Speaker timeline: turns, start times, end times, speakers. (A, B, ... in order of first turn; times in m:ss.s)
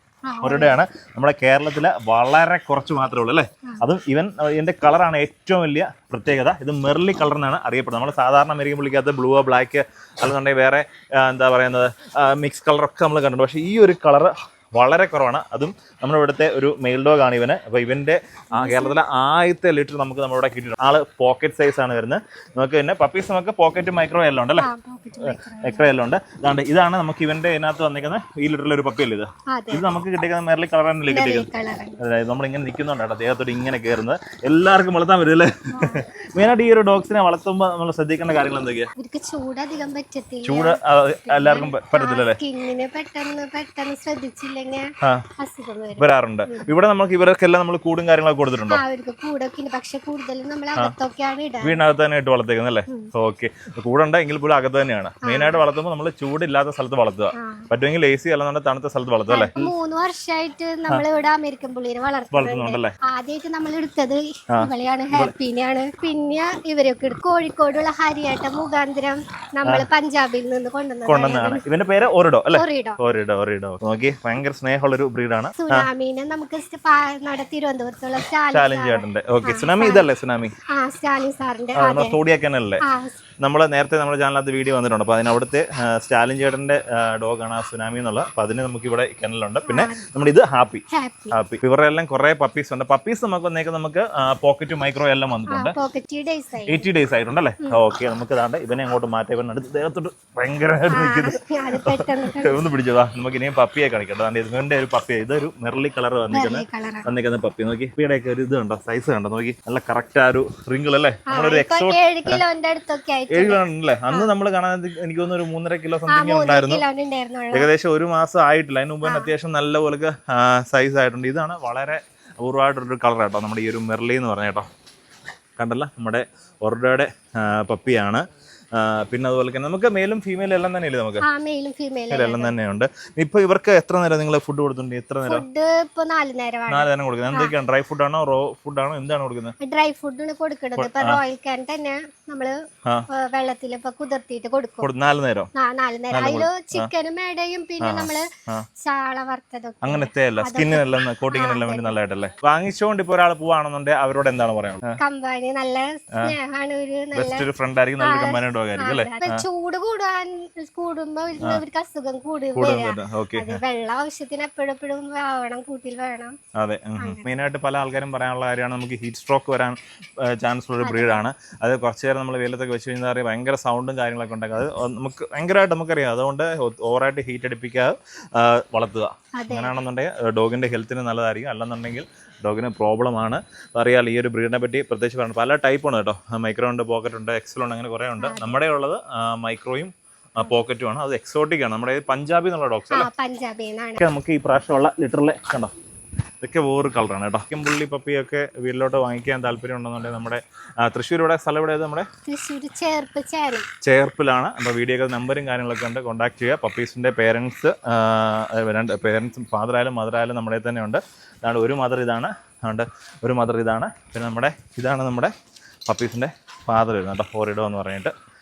0:00.3-0:00.8 A
0:00.4-0:24.7 B
0:18.6-0:19.0 A
0:24.6-0:25.9 A
0:25.2-0:31.5 B
0:29.5-0:29.9 A
0:31.1-0:32.0 A
0:32.0-0:38.9 B
0:35.7-0:36.0 A
0:39.0-0:46.7 A
0:40.4-0:42.4 B
0:46.0-0:48.8 B
0:48.7-0:51.8 A
0:51.6-0:59.7 B
0:55.2-0:55.6 A
0:57.3-0:57.7 A
0:59.3-1:11.6 A
1:02.3-1:02.9 B
1:04.5-1:05.3 B
1:11.0-1:15.9 B
1:12.5-1:13.0 A
1:15.6-1:20.0 A
1:18.5-1:20.5 B
1:20.7-1:22.2 A
1:21.8-1:22.8 B
1:22.8-1:23.2 A
1:23.4-1:35.8 B
1:29.7-1:30.0 A
1:30.9-1:31.3 A
1:35.5-1:36.9 A
1:36.7-1:52.4 B
1:40.9-1:42.6 A
1:46.3-1:47.1 A
1:51.3-1:54.3 A
1:53.3-1:56.8 B
1:56.1-1:57.7 A
1:57.5-2:04.7 B
1:59.0-1:59.3 A
2:05.6-2:11.2 B
2:11.2-2:12.5 A
2:12.1-2:15.4 B
2:15.2-2:17.5 A
2:16.7-2:19.5 B
2:19.6-2:22.6 A
2:20.8-2:21.2 B
2:23.1-2:24.9 A
2:24.8-2:25.5 B
2:25.5-2:28.3 A
2:26.1-2:26.9 B
2:27.8-2:28.7 B
2:28.8-2:31.9 A
2:29.8-2:35.0 B
2:35.0-2:37.5 A
2:37.1-2:39.5 B
2:38.0-2:46.4 A
2:42.6-2:43.6 B
2:46.6-3:13.1 B
2:47.0-2:47.3 A
2:50.8-2:51.2 A
2:59.4-2:59.7 A
3:08.2-3:08.5 A
3:12.9-3:14.0 A
3:14.0-3:15.7 B
3:16.4-3:22.1 B
3:22.2-3:23.7 A
3:23.8-3:35.3 B
3:35.9-3:38.1 B